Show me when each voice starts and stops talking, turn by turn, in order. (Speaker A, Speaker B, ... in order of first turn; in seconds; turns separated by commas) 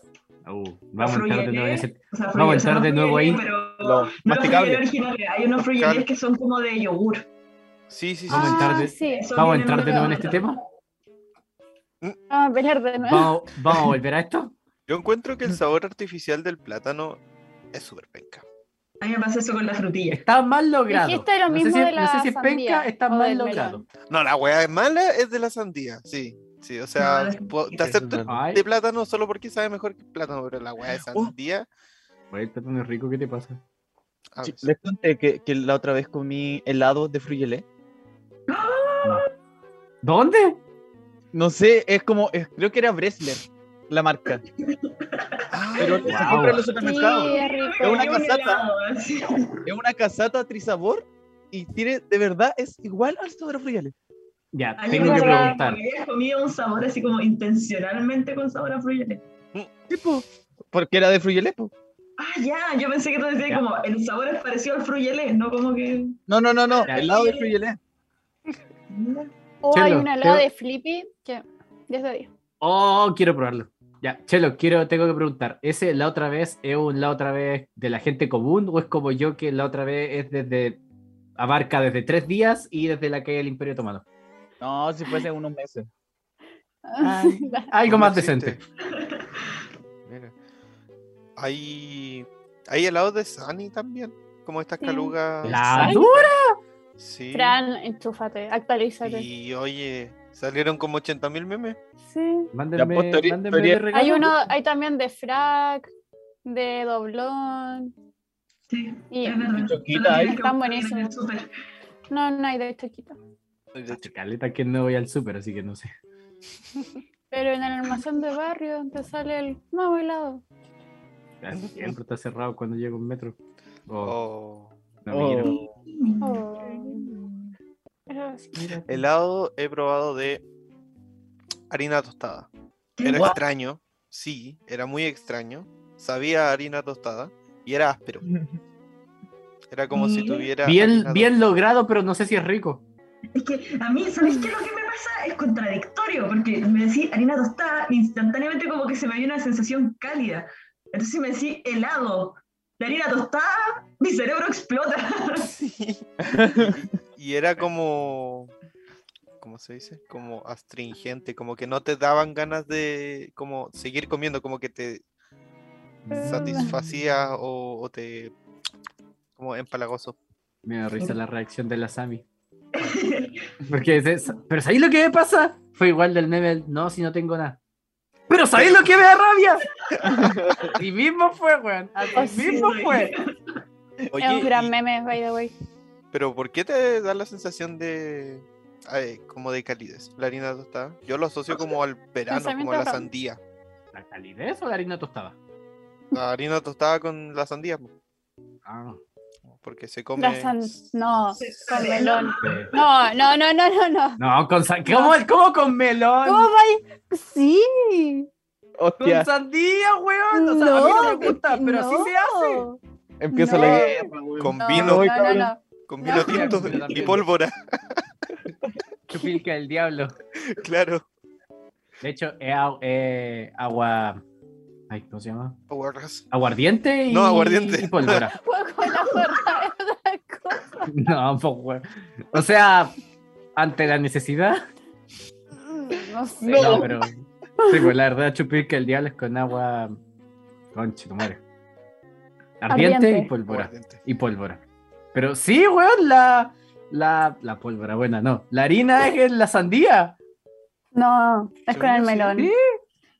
Speaker A: 0.4-3.4, Speaker B: 1.0-7.2, Speaker C: 3.8-4.8, Speaker D: 5.7-6.1, Speaker D: 7.9-8.9, Speaker A: 8.3-10.6, Speaker E: 8.3-10.2, Speaker B: 9.0-10.4, Speaker E: 12.3-13.3, Speaker A: 13.1-14.5, Speaker D: 14.9-18.4, Speaker B: 19.0-20.2, Speaker A: 20.1-23.8, Speaker E: 20.9-23.8, Speaker D: 24.1-31.7, Speaker B: 27.0-28.0, Speaker C: 27.8-28.3, Speaker A: 28.2-28.6, Speaker A: 32.3-33.6, Speaker D: 34.3-34.7, Speaker C: 34.4-37.6, Speaker B: 38.5-39.3, Speaker A: 40.0-40.6, Speaker C: 41.3-44.4, Speaker B: 44.6-46.1, Speaker D: 45.5-46.4, Speaker C: 45.8-48.6, Speaker A: 46.0-46.6, Speaker E: 46.7-48.1, Speaker B: 46.9-49.6, Speaker C: 49.6-53.9, Speaker A: 54.5-55.8, Speaker B: 54.8-59.2, Speaker E: 54.9-55.6, Speaker C: 59.9-61.7, Speaker B: 62.2-66.2, Speaker C: 66.3-67.8, Speaker B: 66.7-67.5, Speaker B: 68.9-69.3, Speaker E: 69.6-72.3, Speaker A: 69.7-70.5, Speaker A: 72.6-80.8, Speaker A: 81.4-84.0, Speaker C: 84.6-85.9, Speaker E: 86.8-87.7, Speaker A: 87.0-88.6, Speaker D: 87.8-88.6, Speaker B: 88.9-89.5, Speaker D: 90.0-90.3, Speaker D: 91.4-96.0, Speaker E: 94.8-95.2, Speaker A: 95.4-96.5, Speaker E: 95.7-96.2, Speaker D: 97.0-97.6, Speaker E: 97.3-99.3, Speaker D: 99.0-101.8, Speaker E: 102.0-102.5, Speaker A: 102.5-104.3, Speaker C: 102.8-103.8, Speaker E: 103.9-105.9, Speaker E: 106.4-107.9, Speaker B: 108.7-111.5, Speaker E: 109.1-109.5, Speaker C: 109.5-110.3, Speaker E: 110.2-111.1, Speaker E: 112.1-113.2, Speaker A: 113.8-115.9, Speaker E: 117.3-120.4, Speaker A: 121.4-123.4, Speaker D: 121.5-121.9, Speaker A: 123.9-124.2, Speaker D: 124.0-124.7, Speaker A: 125.0-125.6, Speaker C: 125.1-125.7, Speaker B: 125.4-126.5, Speaker E: 126.2-127.0, Speaker C: 126.9-127.5, Speaker E: 128.1-128.8, Speaker D: 128.8-130.4, Speaker D: 131.7-132.5, Speaker B: 133.0-133.4, Speaker D: 133.0-138.2, Speaker C: 138.2-138.6, Speaker D: 139.7-141.3, Speaker B: 139.9-140.5, Speaker A: 140.6-142.8, Speaker B: 143.3-155.5, Speaker D: 155.4-158.5, Speaker C: 156.2-156.9, Speaker D: 159.4-165.0, Speaker A: 166.1-166.4, Speaker E: 166.1-166.7, Speaker D: 166.1-168.3, Speaker D: 169.3-170.2, Speaker A: 170.6-172.2, Speaker B: 172.7-173.5, Speaker A: 173.7-177.6, Speaker A: 178.3-179.7, Speaker D: 178.5-178.9, Speaker C: 180.0-180.7, Speaker A: 180.7-183.1, Speaker E: 182.1-182.7, Speaker B: 182.1-183.2, Speaker D: 184.1-184.7, Speaker E: 184.2-185.5, Speaker D: 186.1-193.4, Speaker E: 192.3-193.1, Speaker A: 193.9-195.3, Speaker D: 196.1-197.9, Speaker A: 198.7-199.0, Speaker D: 199.5-200.9, Speaker E: 200.2-204.2, Speaker B: 201.3-202.9, Speaker D: 201.4-201.7, Speaker A: 202.4-202.7, Speaker A: 204.2-206.5, Speaker E: 204.8-205.2, Speaker E: 206.2-208.3, Speaker C: 208.8-209.3, Speaker A: 209.0-212.6, Speaker E: 210.3-212.8, Speaker C: 213.2-215.5, Speaker E: 213.3-214.1, Speaker D: 214.4-215.1, Speaker E: 214.6-216.6, Speaker D: 215.9-218.0, Speaker A: 216.1-217.2, Speaker A: 219.1-220.2, Speaker D: 220.4-221.0, Speaker A: 222.0-224.2, Speaker A: 224.9-225.6, Speaker D: 225.7-226.2, Speaker A: 226.3-228.3, Speaker D: 227.1-228.3, Speaker E: 228.1-230.9, Speaker A: 230.8-232.9, Speaker A: 233.6-234.6, Speaker E: 235.6-236.9, Speaker C: 236.4-236.9, Speaker A: 236.5-240.0, Speaker E: 237.6-237.9, Speaker A: 240.7-241.4, Speaker A: 242.6-244.6, Speaker E: 242.7-243.3, Speaker D: 243.5-244.0, Speaker A: 245.1-250.2, Speaker E: 250.9-252.5, Speaker D: 251.7-252.4, Speaker A: 252.3-252.8